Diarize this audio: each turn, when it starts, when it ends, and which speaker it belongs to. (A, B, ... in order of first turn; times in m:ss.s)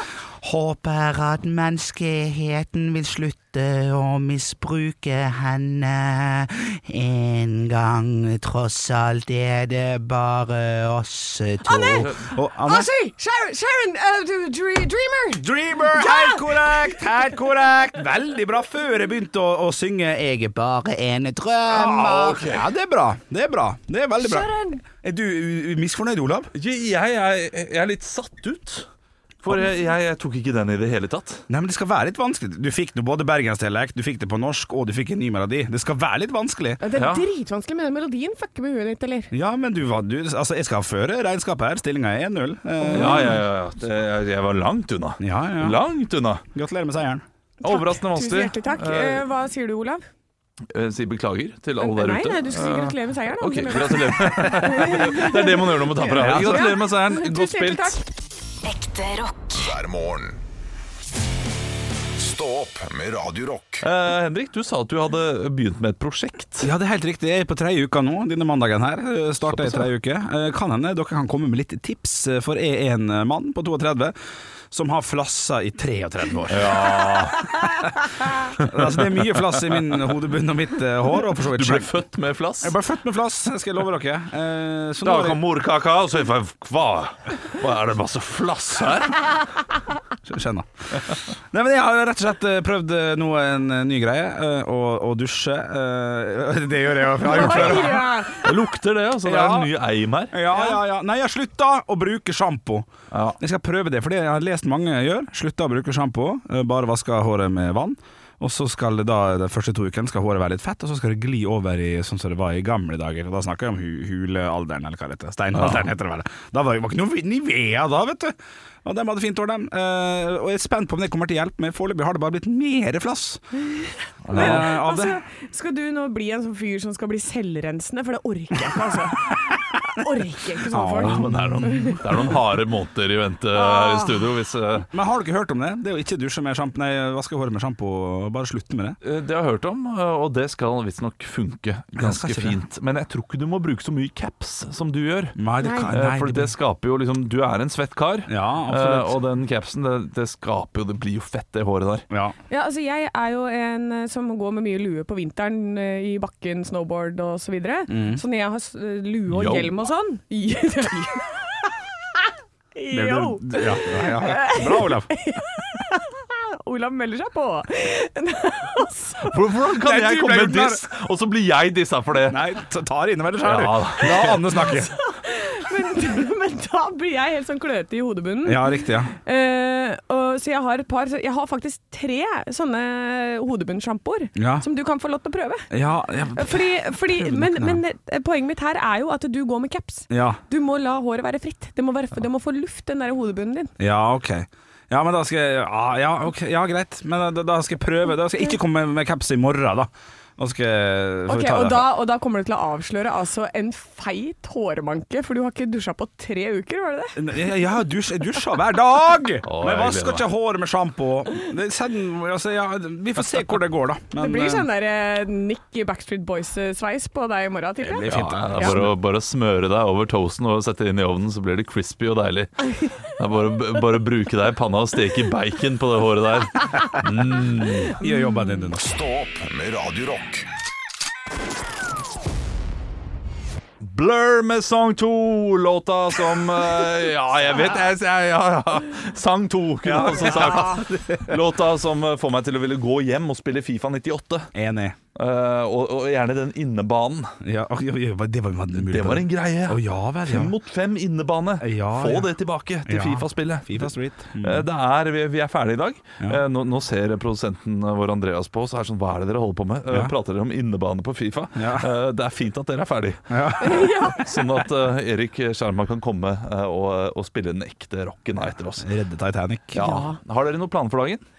0:00.9-0:02.6 A
0:02.7-0:04.7 B
0:05.1-0:07.5 A
0:07.6-0:12.9 B
0:08.6-0:09.7 A
0:11.6-0:17.1 C
0:15.4-0:26.5 B
0:21.7-0:22.7 D
0:24.2-0:24.8 C
0:26.5-0:28.9 D
0:29.4-0:31.4 D
0:31.5-0:36.8 B
0:36.8-0:39.3 C
0:37.0-0:37.2 D
0:39.3-0:43.4 B
0:42.8-0:43.4 C
0:42.9-0:46.4 D
0:45.2-0:45.8 B
0:46.5-0:47.2 B
0:47.6-0:49.2 D
0:47.6-0:50.0 C
0:50.7-0:58.0 D
0:51.8-0:58.0 C
0:56.2-0:56.7 B
0:58.6-1:00.4 E
1:02.2-1:03.8 E
1:03.8-1:06.7 D
1:06.6-1:14.2 B
1:09.5-1:09.9 D
1:14.7-1:17.9 B
1:16.5-1:17.5 D
1:18.5-1:21.9 B
1:18.6-1:20.0 D
1:21.4-1:22.8 D
1:22.6-1:25.4 B
1:25.0-1:29.4 D
1:30.3-1:38.2 B
1:37.2-1:38.5 C
1:37.4-1:40.4 D
1:39.2-1:39.7 B
1:40.3-1:58.3 B
1:43.1-1:43.4 D
1:55.6-1:55.9 D
1:58.8-2:03.4 B
2:03.7-2:12.0 C
2:04.3-2:04.7 D
2:04.3-2:05.2 B
2:10.7-2:12.0 B
2:11.0-2:14.9 D
2:13.5-2:14.3 C
2:14.9-2:19.0 B
2:19.0-2:32.1 D
2:22.0-2:22.6 B
2:25.4-2:26.5 B
2:25.6-2:25.9 C
2:28.3-2:29.2 B
2:32.5-2:49.4 C
2:37.9-2:38.2 B
2:39.3-2:39.7 D
2:42.9-2:45.1 B
2:49.3-2:52.5 D
2:49.8-2:50.8 B
2:52.3-2:54.9 B
2:53.4-2:54.6 D
2:54.2-3:05.7 C
2:58.4-2:59.1 B
3:04.4-3:04.6 B
3:05.7-3:07.8 B
3:06.3-3:13.7 C
3:10.1-3:10.4 B
3:13.8-3:21.9 B
3:21.3-3:27.2 C
3:27.2-3:34.7 B
3:29.4-3:30.3 D
3:34.2-3:38.9 C
3:37.8-3:38.9 B
3:38.1-3:48.0 D
3:47.0-3:48.8 B
3:48.0-3:48.6 C
3:48.7-3:50.5 E
3:53.8-4:04.5 D
3:59.8-4:01.4 B
4:00.0-4:00.8 C
4:04.6-4:05.0 B
4:05.2-4:07.3 D
4:07.4-4:10.5 B
4:08.8-4:28.9 D
4:11.6-4:12.3 B
4:12.9-4:14.7 B
4:21.6-4:21.9 B
4:23.3-4:24.2 B
4:23.6-4:24.3 C
4:28.8-4:29.9 B
4:29.7-4:31.2 D
4:29.8-4:30.2 C